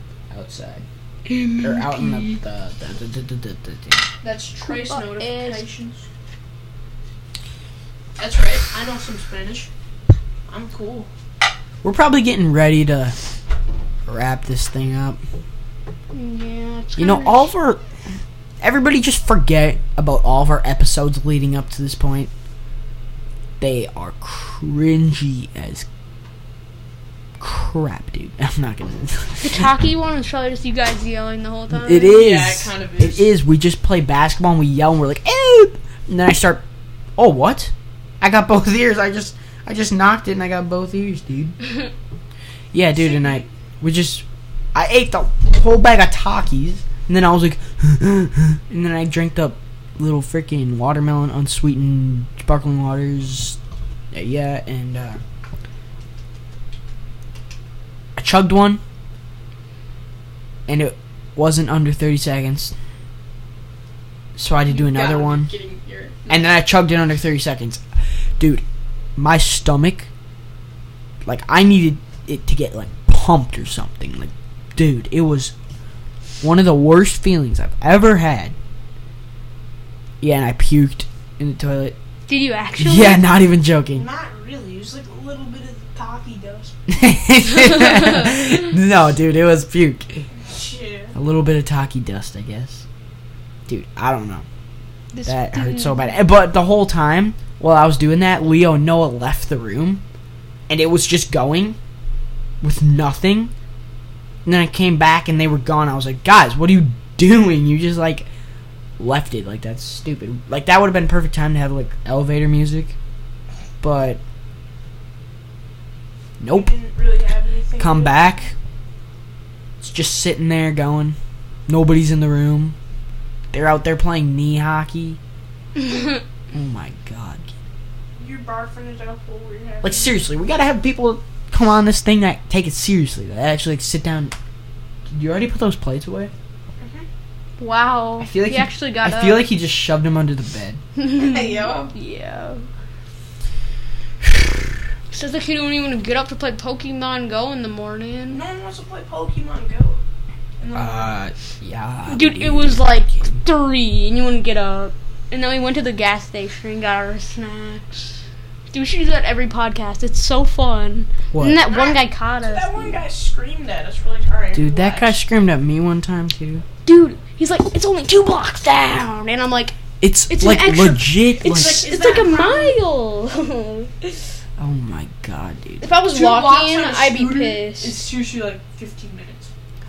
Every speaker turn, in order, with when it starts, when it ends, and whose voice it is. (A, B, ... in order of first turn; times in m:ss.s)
0:00.3-0:00.8 A
0:01.3-0:02.4 B
0:01.6-0:04.1 A
0:04.2-0:06.0 C
0:04.7-0:05.7 B
0:08.2-0:09.7 C
0:10.5-0:11.1 C
0:11.8-0:13.2 A
0:14.1-0:15.2 A
0:16.1-0:17.5 B
0:17.0-0:17.8 A
0:18.6-0:22.3 A
0:23.6-0:25.8 A
0:27.4-0:29.7 A
0:29.4-0:32.2 B
0:31.7-0:36.6 A
0:32.0-0:33.3 C
0:37.2-0:41.6 A
0:42.7-0:53.6 A
0:54.1-0:55.2 A
0:58.2-0:58.8 A
1:00.7-1:02.7 A
1:04.4-1:05.5 A
1:04.7-1:06.5 C
1:06.3-1:07.8 A
1:08.4-1:08.6 A
1:09.2-1:10.1 A
1:11.2-1:15.5 A
1:16.4-1:18.5 A
1:20.2-1:22.0 A
1:22.3-1:23.3 B
1:22.8-1:24.0 A
1:23.9-1:26.7 C
1:26.9-1:30.3 A
1:30.4-1:31.1 C
1:31.1-1:32.8 A
1:33.7-1:34.4 A
1:35.1-1:36.1 B
1:35.2-1:40.0 A
1:40.7-1:41.8 A
1:42.6-1:43.5 A
1:44.4-1:48.3 A
1:49.0-1:52.9 A
1:53.8-1:54.2 A
1:56.4-1:56.7 A
1:56.5-1:58.3 C
1:57.8-1:58.5 A
1:59.8-2:01.2 A
2:01.7-2:02.8 A
2:03.5-2:05.2 A
2:06.5-2:07.5 A
2:08.2-2:10.2 C
2:09.8-2:14.3 A
2:15.1-2:16.3 A
2:16.8-2:17.0 C
2:17.6-2:19.5 B
2:18.2-2:20.8 A
2:21.0-2:22.7 B
2:21.2-2:21.9 C
2:25.1-2:28.4 B
2:28.3-2:30.0 C
2:30.6-2:31.1 C
2:30.7-2:33.4 A
2:32.1-2:38.2 B
2:38.7-2:43.0 B
2:41.3-2:41.6 A
2:41.7-2:45.2 C
2:44.5-2:46.6 A
2:46.8-2:49.8 B
2:50.0-2:51.8 A
2:50.3-2:54.2 B
2:51.4-2:52.8 C
2:54.6-2:55.9 A
2:55.8-2:58.0 B
2:56.1-2:59.5 C